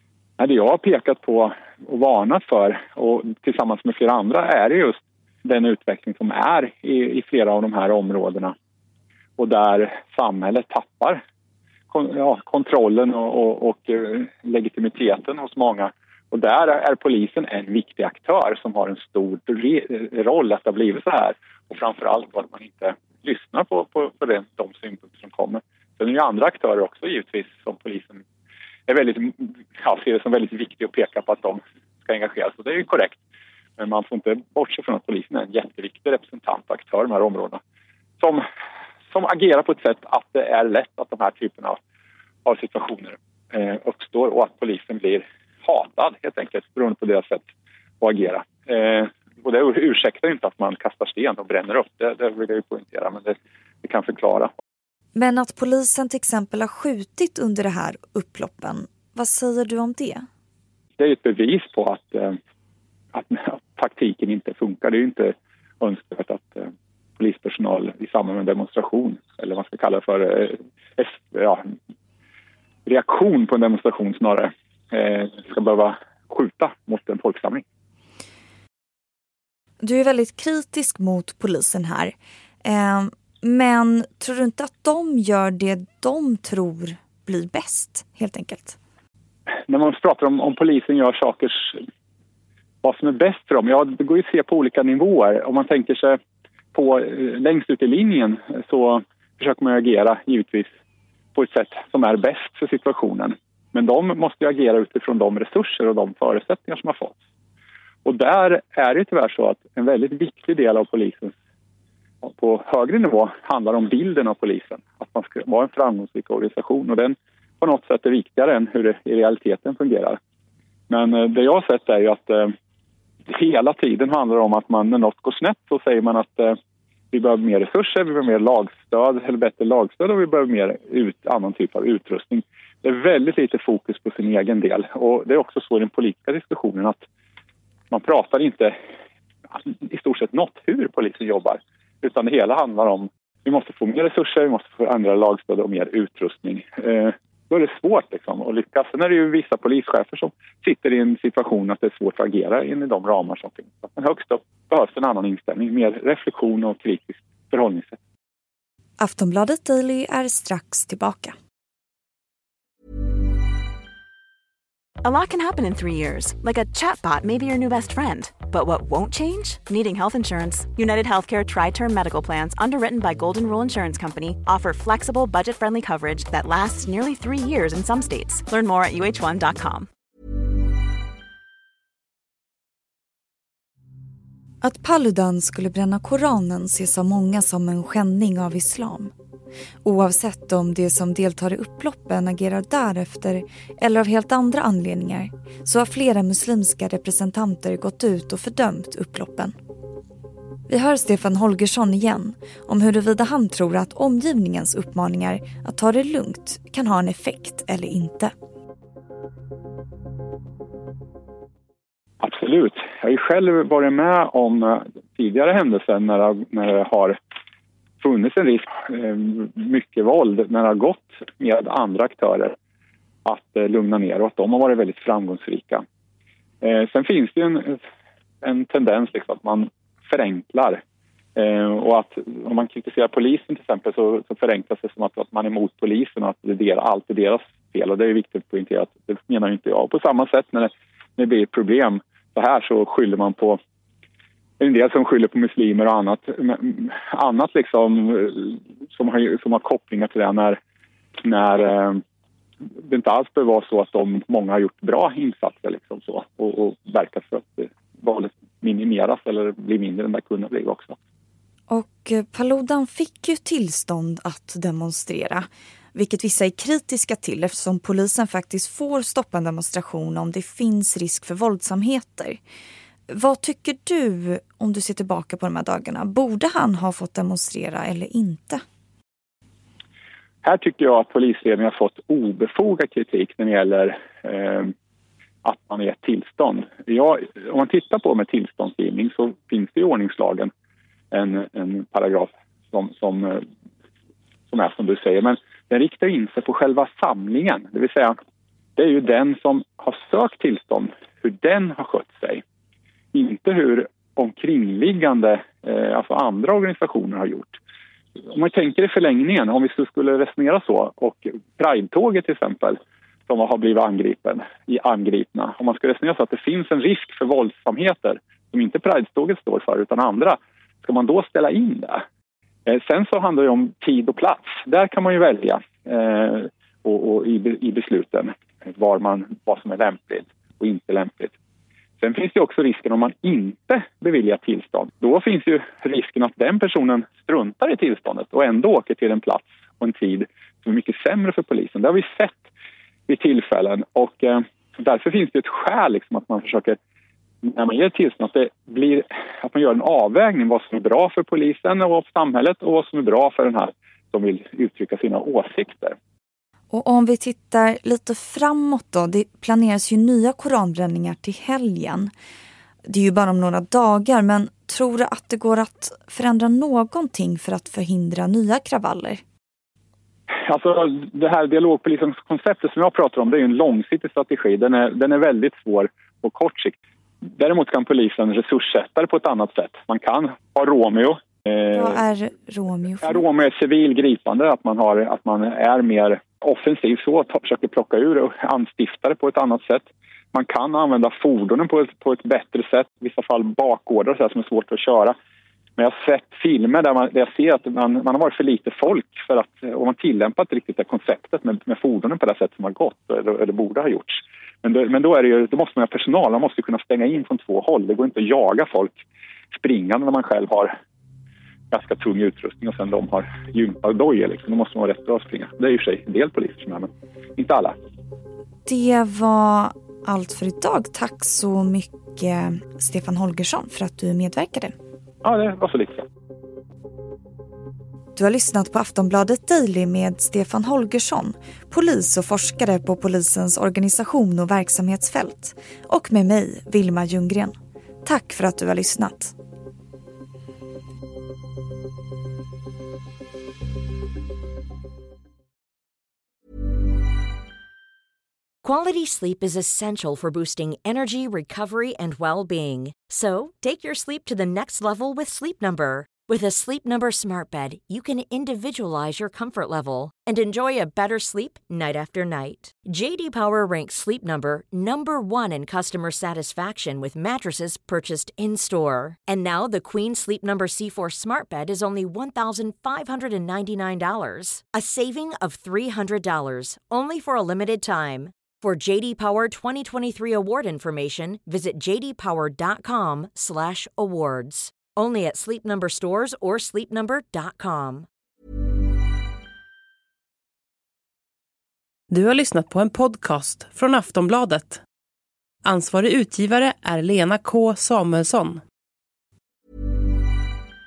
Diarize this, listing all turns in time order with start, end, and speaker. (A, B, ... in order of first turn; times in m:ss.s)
0:00.4-0:08.5 A
0:09.4-0:11.2 A
0:11.9-0:28.2 A
0:28.9-0:33.2 A
0:33.8-0:37.6 A
0:39.1-0:41.8 A
0:42.4-0:47.4 A
0:48.0-0:54.5 A
0:55.1-1:00.2 B
1:01.0-1:02.4 A
1:03.1-1:11.7 A
1:12.8-1:17.6 A
1:19.8-1:28.8 B
1:29.7-1:31.8 A
1:32.8-1:36.2 A
1:36.7-1:40.7 A
1:41.3-1:47.2 A
1:48.0-1:51.3 A
1:52.2-2:00.2 A
2:00.9-2:02.5 A
2:03.3-2:06.6 A
2:07.1-2:17.0 A
2:17.9-2:18.7 A
2:19.5-2:38.0 A
2:39.0-2:41.3 B
2:45.0-2:59.9 C
3:04.6-3:09.1 B
3:09.8-3:19.5 B
3:20.7-3:28.3 B
3:32.2-3:37.2 A
3:38.0-3:42.6 A
3:43.2-3:45.8 A
3:46.6-3:47.8 A
3:48.4-3:50.8 A
3:51.4-4:03.6 A
4:04.6-4:10.6 A
4:11.2-4:12.0 A
4:12.8-4:20.9 A
4:21.7-4:32.4 B
4:33.1-4:38.6 B
4:40.4-4:44.7 A
4:45.4-4:50.5 A
4:51.1-4:53.4 A
4:54.5-4:58.1 A
4:58.8-5:02.4 A
5:03.1-5:07.6 A
5:08.3-5:22.0 A
5:22.7-5:31.3 A
5:32.0-5:42.4 A
5:43.1-5:46.8 A
5:47.4-5:56.0 A
5:56.7-6:02.1 B
6:02.9-6:09.2 B
6:10.4-6:22.0 A
6:21.7-6:23.2 B
6:23.0-6:35.1 A
6:35.8-6:50.7 A
6:51.7-6:57.8 A
6:58.6-7:04.7 B
7:05.2-7:06.0 A
7:08.2-7:19.3 B
7:28.6-8:08.1 D
8:12.1-8:14.8 E
8:15.6-8:18.6 E